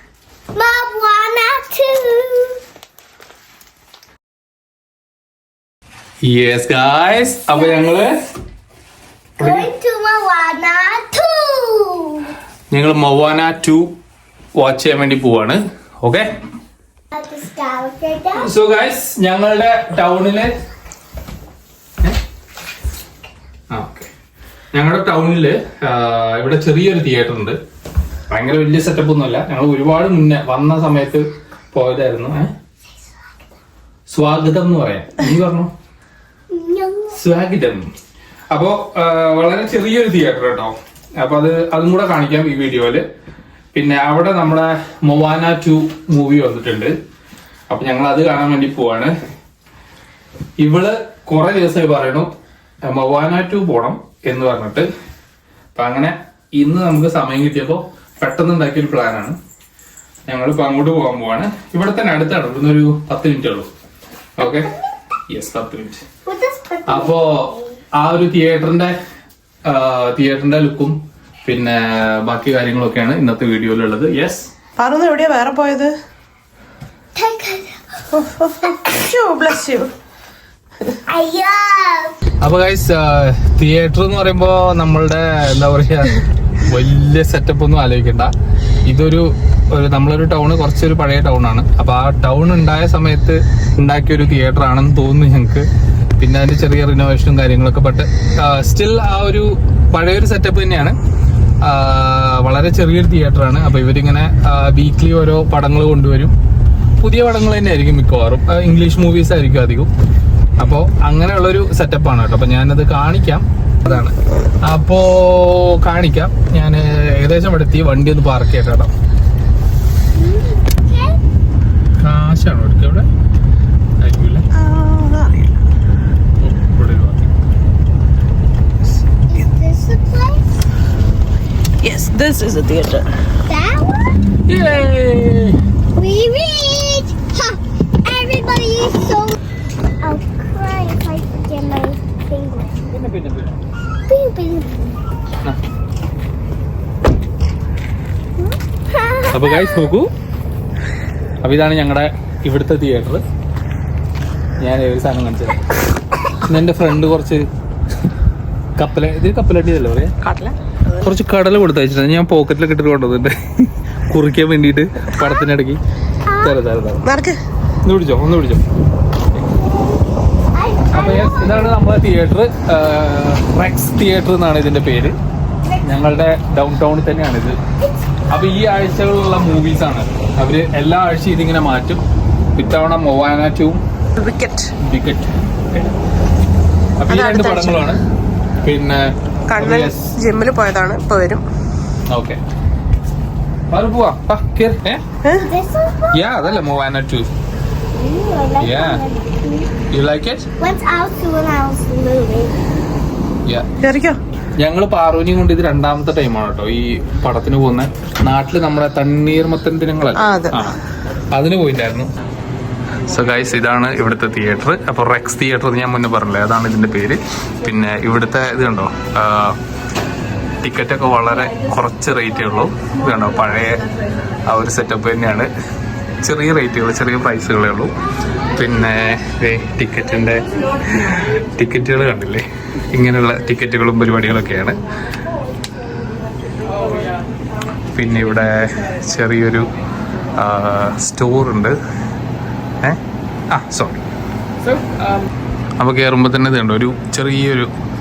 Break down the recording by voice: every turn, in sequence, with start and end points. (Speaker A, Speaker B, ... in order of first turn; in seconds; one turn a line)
Speaker A: 0.5-2.6
Speaker B: 6.2-8.1
Speaker A: 7.5-7.9
Speaker B: 9.4-9.7
Speaker A: 9.4-12.3
Speaker B: 12.7-13.9
Speaker B: 14.6-16.3
Speaker A: 17.1-18.4
Speaker B: 18.4-20.5
Speaker B: 23.7-24.1
Speaker B: 24.7-27.6
Speaker B: 28.3-32.5
Speaker B: 34.1-35.7
Speaker A: 36.5-37.1
Speaker B: 37.1-37.9
Speaker B: 38.5-43.0
Speaker B: 43.7-46.9
Speaker B: 47.7-49.1
Speaker B: 50.6-52.3
Speaker B: 52.8-54.9
Speaker B: 55.7-59.4
Speaker B: 60.3-63.7
Speaker B: 64.4-64.7
Speaker B: 65.3-66.0
Speaker A: 66.2-67.6
Speaker B: 66.9-69.0
Speaker B: 69.7-74.5
Speaker C: 74.8-75.9
Speaker A: 77.2-78.0
Speaker C: 78.1-79.9
Speaker A: 81.1-82.2
Speaker B: 82.4-88.3
Speaker B: 88.8-101.0
Speaker B: 101.6-106.3
Speaker B: 107.0-109.9
Speaker B: 110.6-118.9
Speaker A: 120.2-121.2
Speaker B: 122.0-123.0
Speaker B: 124.0-124.4
Speaker C: 124.5-125.3
Speaker B: 126.4-127.3
Speaker A: 129.3-130.4
Speaker C: 131.8-133.1
Speaker A: 133.5-134.1
Speaker B: 134.5-135.6
Speaker A: 135.9-139.4
Speaker A: 140.0-142.8
Speaker B: 142.9-143.6
Speaker A: 144.1-144.9
Speaker A: 148.9-149.6
Speaker B: 149.3-150.1
Speaker B: 151.4-153.2
Speaker B: 154.6-155.6
Speaker B: 156.4-157.4
Speaker B: 158.8-160.1
Speaker C: 160.2-160.5
Speaker B: 161.0-165.8
Speaker A: 166.3-166.5
Speaker B: 166.4-167.0
Speaker C: 167.1-167.4
Speaker B: 167.8-168.6
Speaker A: 170.5-171.7
Speaker B: 170.9-175.2
Speaker B: 175.8-177.6
Speaker B: 178.3-182.0
Speaker B: 182.6-183.8
Speaker C: 184.2-184.7
Speaker B: 184.8-185.9
Speaker B: 187.0-188.0
Speaker C: 187.1-187.8
Speaker B: 188.6-190.2
Speaker C: 189.5-191.4
Speaker B: 192.1-192.4
Speaker B: 193.7-195.0
Speaker C: 195.2-195.5
Speaker A: 195.4-196.4
Speaker B: 196.1-197.3
Speaker A: 197.9-199.7
Speaker B: 198.6-199.0
Speaker B: 199.9-200.5
Speaker A: 200.6-202.6
Speaker C: 203.8-204.2
Speaker B: 204.6-210.8
Speaker C: 210.2-210.6
Speaker B: 211.3-212.1
Speaker B: 213.1-219.6
Speaker B: 220.6-223.9
Speaker B: 224.4-225.5
Speaker B: 226.2-227.9
Speaker B: 228.5-234.8
Speaker B: 237.9-239.7
Speaker B: 240.3-241.7
Speaker B: 243.5-244.0
Speaker B: 245.8-247.7